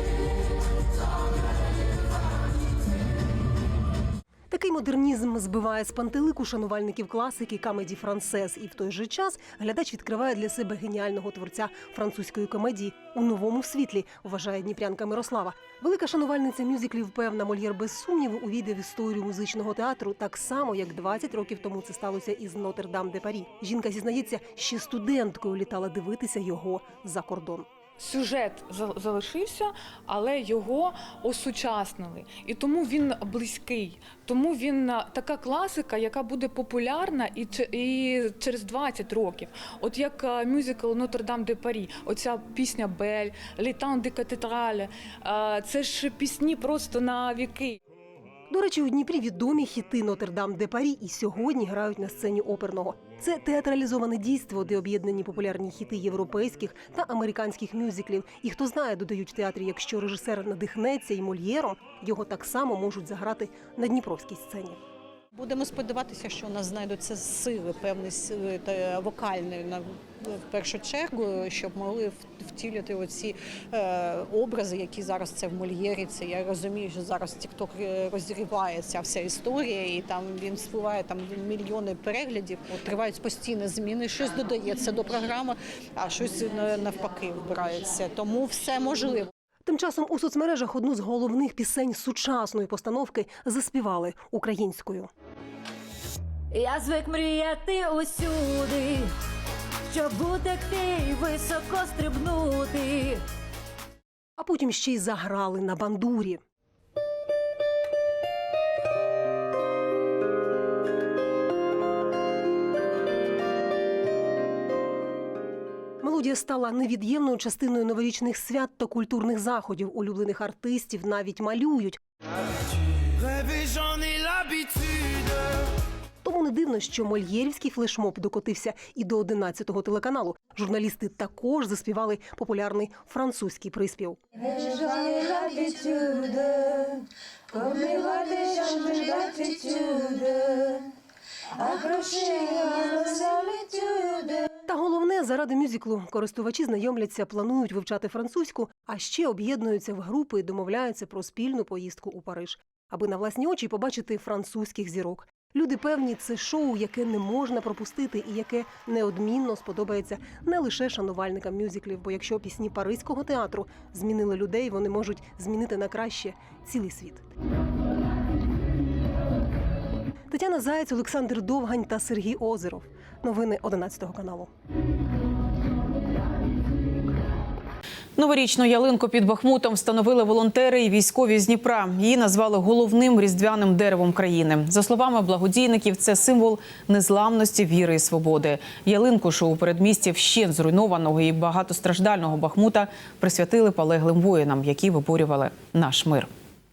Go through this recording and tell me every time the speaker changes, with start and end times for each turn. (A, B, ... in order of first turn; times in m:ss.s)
0:04.5-0:27.7 A
0:28.0-0:47.8 B
0:48.5-1:04.8 A
1:05.3-1:29.3 C
1:29.6-1:35.1 A
1:36.5-1:39.1 D
1:39.9-1:43.2 D
1:44.4-1:46.4 A
1:56.0-2:02.0 A
2:06.2-2:14.2 A
2:18.4-2:18.7 D
2:21.8-2:22.3 D
2:24.6-2:47.3 A
2:50.3-2:54.5 A
2:58.2-3:16.3 E